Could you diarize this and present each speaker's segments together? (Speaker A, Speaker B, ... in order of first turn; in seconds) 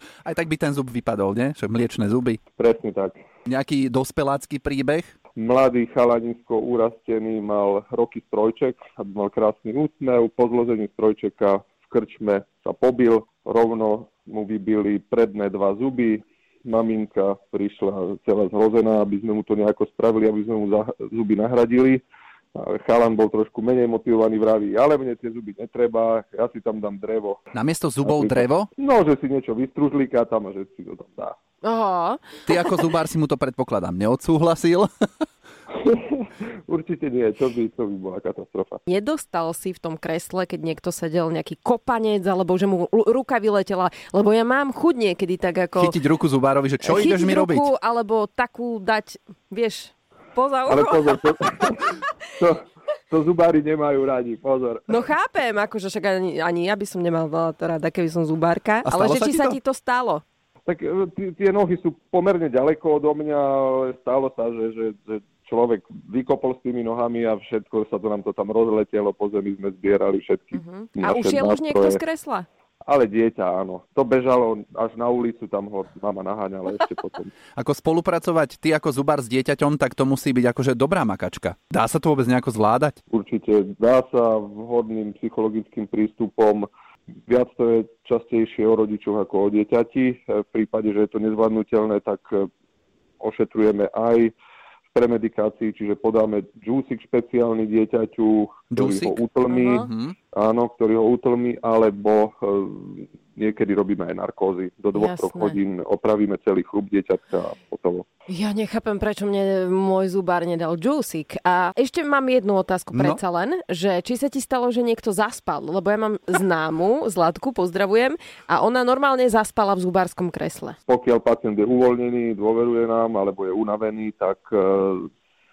Speaker A: 0.2-2.4, 3.5-5.1, 27.5-28.7, 32.5-34.9, 45.8-47.7, 58.8-59.6, 77.5-83.0, 98.7-100.1, 112.9-113.2
Speaker B: 2.5-3.1, 5.3-22.0, 22.6-27.4, 28.0-31.4, 35.7-38.8, 50.7-54.9, 60.7-72.0, 72.9-77.3, 83.1-86.7, 87.3-92.5, 93.2-94.3, 94.9-108.1, 120.9-125.1
Speaker C: 31.6-32.7, 38.9-46.0, 46.8-51.2, 54.9-60.2, 70.5-72.5, 99.5-99.9, 104.9-105.6, 108.3-120.8